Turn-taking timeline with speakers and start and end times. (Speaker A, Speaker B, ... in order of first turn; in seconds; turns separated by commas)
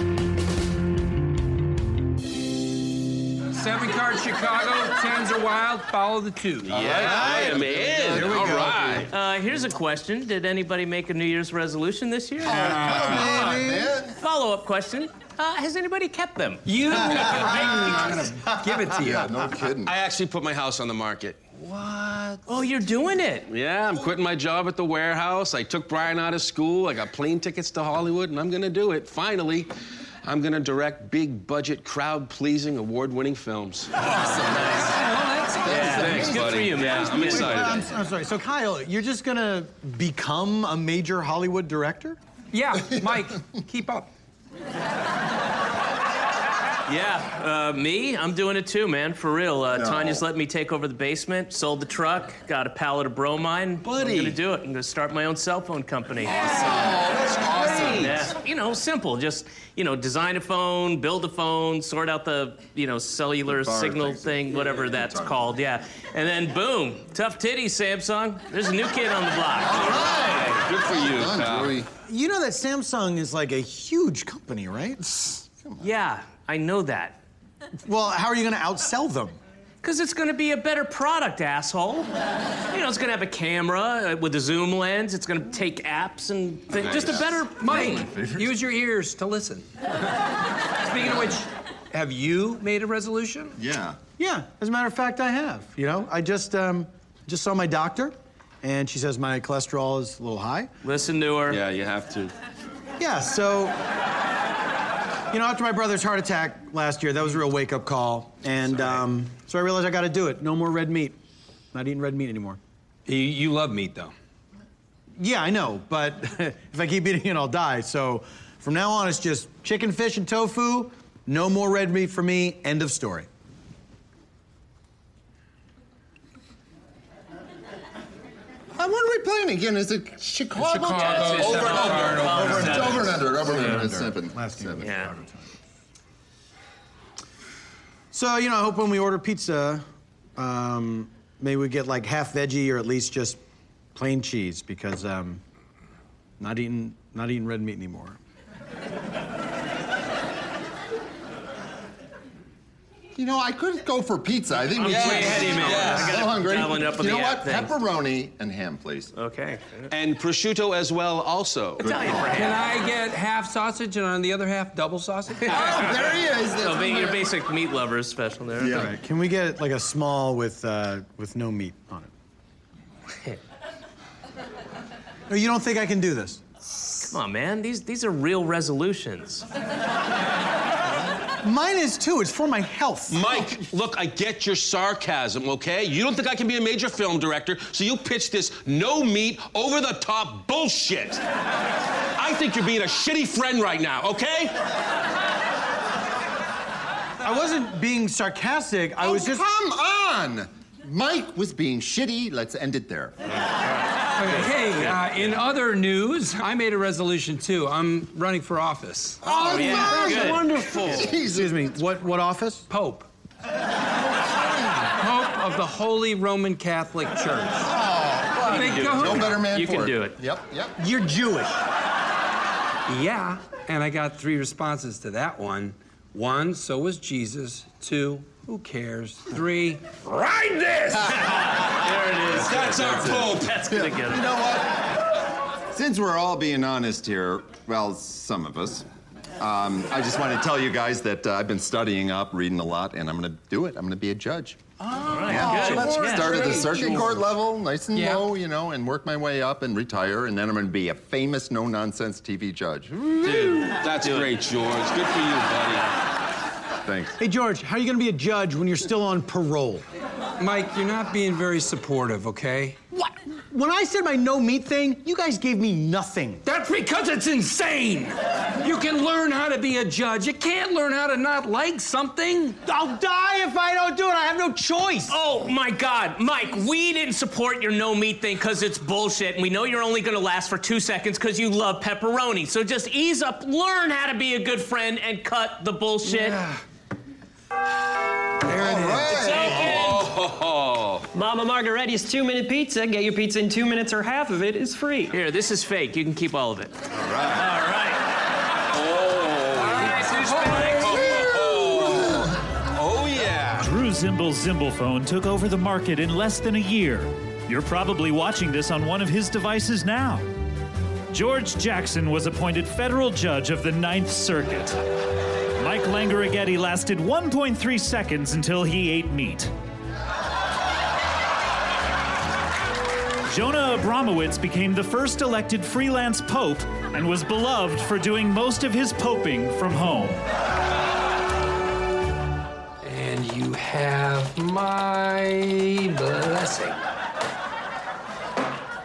Speaker A: 3.5-6.7, Speaker B: 6.6-9.1, Speaker C: 6.8-7.6, Speaker D: 6.8-9.1, Speaker E: 9.1-12.8, Speaker C: 12.4-14.2, Speaker D: 12.4-13.9, Speaker E: 14.2-18.1, Speaker A: 16.7-16.9, Speaker B: 17.0-18.1, Speaker C: 17.4-18.0, Speaker A: 17.5-19.4, Speaker C: 18.9-19.9, Speaker B: 19.8-22.4, Speaker E: 22.5-23.5, Speaker B: 23.5-29.7, Speaker B: 30.2-35.0, Speaker C: 34.1-35.0, Speaker A: 34.7-35.7, Speaker E: 35.6-37.7, Speaker C: 35.6-36.5, Speaker B: 35.7-37.9, Speaker D: 37.1-42.2, Speaker A: 42.5-44.1, Speaker E: 46.9-56.9, Speaker C: 49.7-50.2, Speaker B: 53.8-54.4, Speaker B: 56.2-58.3, Speaker E: 57.5-70.5, Speaker C: 63.4-65.5, Speaker C: 69.6-71.8, Speaker B: 70.5-71.8, Speaker D: 72.0-75.4, Speaker C: 75.6-75.9, Speaker E: 75.8-77.2, Speaker D: 77.8-79.4, Speaker E: 79.8-82.1, Speaker E: 82.7-88.1, Speaker B: 86.7-87.0, Speaker C: 86.9-88.5, Speaker A: 87.6-87.8, Speaker A: 88.4-89.7, Speaker A: 91.0-93.5, Speaker C: 93.6-94.0, Speaker D: 94.2-100.7, Speaker E: 100.8-101.6, Speaker B: 101.5-102.3, Speaker D: 103.0-103.8, Speaker D: 105.3-111.2, Speaker D: 111.7-112.6, Speaker A: 113.1-114.1, Speaker D: 115.2-123.3, Speaker C: 128.7-135.1, Speaker E: 130.6-133.8, Speaker B: 131.1-132.4, Speaker D: 132.3-135.4, Speaker E: 134.8-135.1, Speaker D: 138.1-139.8, Speaker D: 140.4-143.4, Speaker D: 143.9-145.4, Speaker D: 146.4-148.2, Speaker C: 153.2-159.1, Speaker E: 154.8-157.8, Speaker B: 154.9-156.0, Speaker E: 159.2-159.9, Speaker B: 159.9-161.9, Speaker E: 161.8-162.7, Speaker C: 162.0-162.4, Speaker A: 162.3-165.4, Speaker C: 165.5-167.3, Speaker E: 166.6-168.9, Speaker C: 168.6-168.9, Speaker D: 168.6-172.1, Speaker D: 175.3-176.4, Speaker E: 177.0-179.4, Speaker D: 181.4-183.5, Speaker B: 183.1-191.2, Speaker B: 192.2-194.5, Speaker D: 197.2-199.4, Speaker C: 199.0-203.3, Speaker A: 204.2-209.3, Speaker C: 209.2-211.6, Speaker E: 209.3-211.1, Speaker D: 209.6-212.7, Speaker A: 212.7-213.1, Speaker A: 214.9-217.6, Speaker C: 217.7-220.7, Speaker E: 218.4-220.2, Speaker A: 218.5-219.3, Speaker D: 220.8-221.5, Speaker A: 222.9-229.8, Speaker E: 230.1-234.3, Speaker C: 230.9-231.3, Speaker C: 232.3-234.8, Speaker B: 232.3-233.6, Speaker C: 235.7-238.8, Speaker C: 239.4-244.6, Speaker E: 245.0-246.9, Speaker C: 245.2-252.9, Speaker A: 245.5-247.0, Speaker B: 253.1-255.9, Speaker E: 253.2-254.3, Speaker C: 256.8-257.1, Speaker D: 257.2-259.8, Speaker A: 260.4-262.8, Speaker D: 262.9-266.4, Speaker A: 266.5-272.6, Speaker D: 272.6-275.1, Speaker E: 275.1-286.4, Speaker B: 286.0-286.6, Speaker C: 288.4-289.6, Speaker E: 288.7-290.1, Speaker B: 289.4-291.1, Speaker F: 291.1-295.1, Speaker E: 295.1-298.0, Speaker B: 297.1-297.4, Speaker B: 298.7-303.7, Speaker E: 299.6-301.0, Speaker G: 303.6-310.2, Speaker G: 311.1-314.8, Speaker G: 315.6-319.5, Speaker G: 323.3-330.2, Speaker A: 332.8-336.7